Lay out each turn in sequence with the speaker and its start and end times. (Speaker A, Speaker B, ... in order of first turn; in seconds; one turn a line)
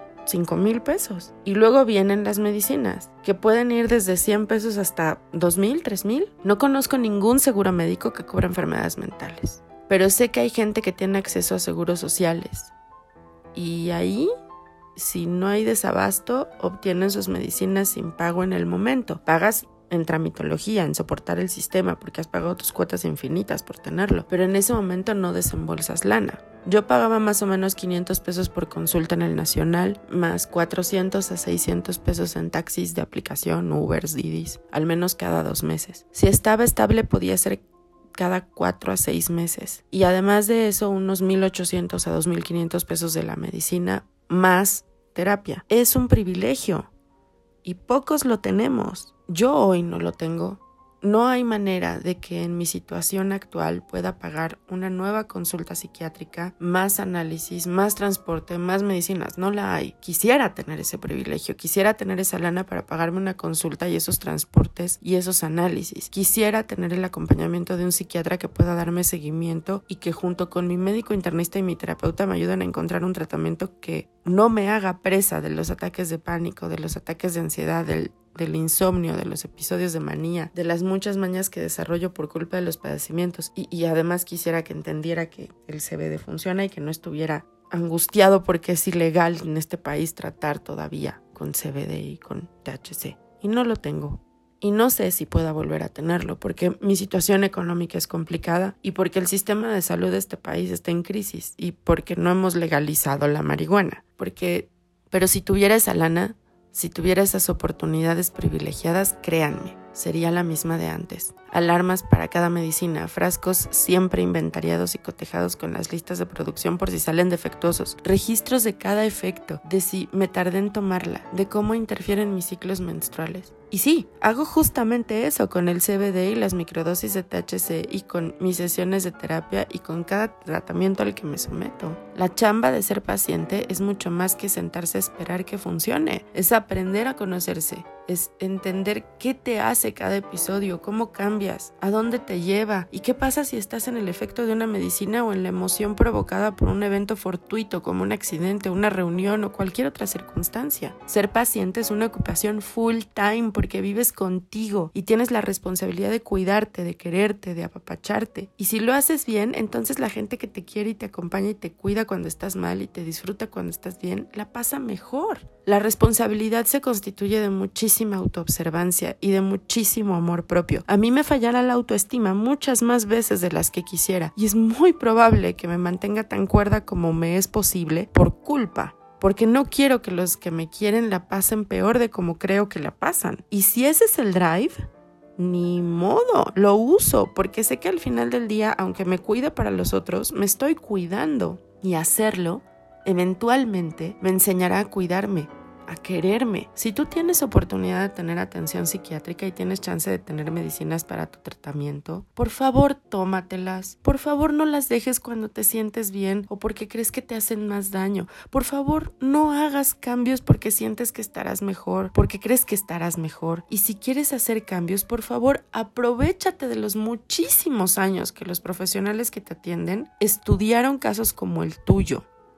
Speaker A: 0.3-12.7
Speaker A: 13.5-14.3
Speaker A: 15.0-37.6
Speaker A: 38.2-46.9
Speaker A: 47.6-184.8
Speaker A: 185.4-222.2